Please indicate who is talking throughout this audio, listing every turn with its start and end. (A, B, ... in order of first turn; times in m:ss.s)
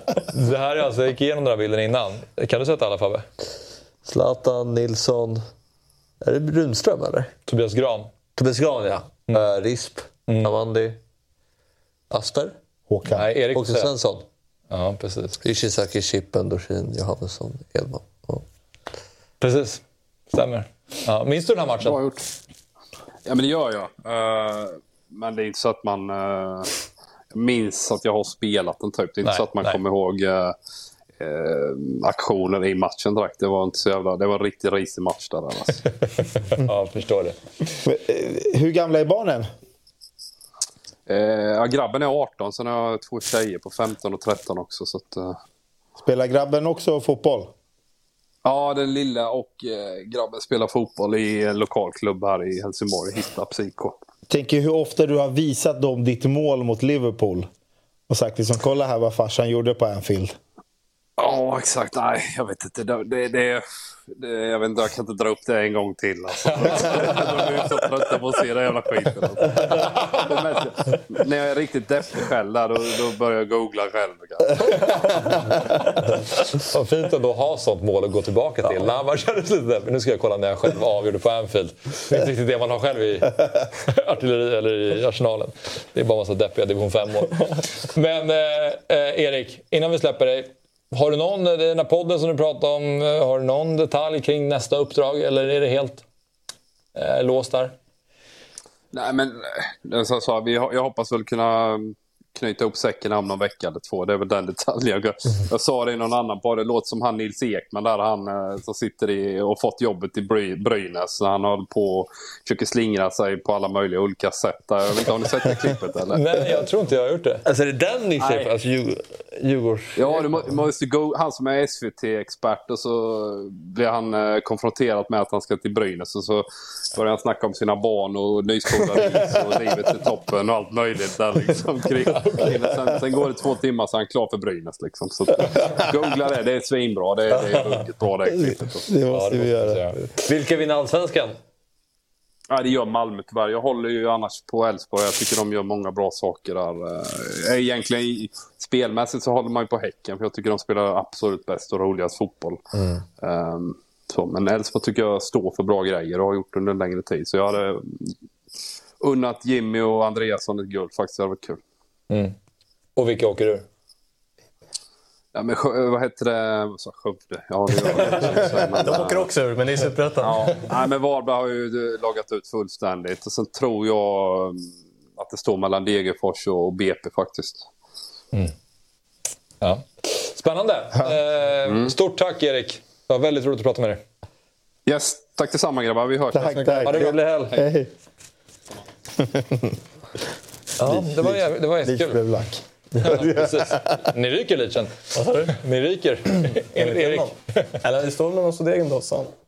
0:00.3-0:03.2 A
0:04.0-0:05.4 B
0:06.2-0:07.3 B
0:07.5-0:08.1 A
0:08.4-0:11.0 B
0:10.3-0:10.5 A
0:12.1-0:12.5 B
0:12.9-0:13.2 C
0:13.1-0:13.9 A
0:13.5-0:14.2 B
0:14.7-0:15.4 A
0:15.4-0:18.4 B
0:19.4-0:22.0 A
0:21.8-0:22.2 D
0:23.2-0:26.8 D
0:27.3-0:30.6 D
0:29.2-0:29.8 A
0:31.2-0:35.8 D
0:36.0-0:37.4 A
0:37.8-0:39.5 C
0:41.1-0:45.4 D
0:46.0-0:47.5 C
0:48.4-0:54.0 D
0:54.3-0:57.5 C
0:58.1-1:00.3 C
1:01.2-1:15.3 D
1:06.7-1:07.2 A
1:09.9-1:10.2 A
1:16.6-1:36.0 A
1:36.9-1:37.7 A
1:38.9-1:56.4 D
1:56.1-1:57.4 A
1:57.4-2:00.2 B
2:00.0-2:18.9 D
2:12.2-2:12.5 A
2:17.3-2:17.8 B
2:18.3-2:20.0 C
2:19.1-2:20.0 A
2:20.2-2:21.4 B
2:22.5-2:32.6 D
2:32.7-2:33.0 B
2:33.2-2:38.1 D
2:39.0-2:41.6 D
2:42.1-2:42.3 A
2:43.0-2:43.6 A
2:45.3-2:49.3 D
2:47.9-2:50.7 E
2:50.2-2:57.7 D
2:59.6-3:04.0 A
3:01.6-3:02.0 D
3:04.8-3:07.0 D
3:06.3-3:07.9 C
3:06.8-3:07.5 A
3:07.0-3:07.4 B
3:09.2-3:09.5 C
3:10.8-3:12.2 A
3:10.8-3:14.0 C
3:13.0-3:17.7 A
3:15.1-3:15.6 E
3:16.8-3:19.3 E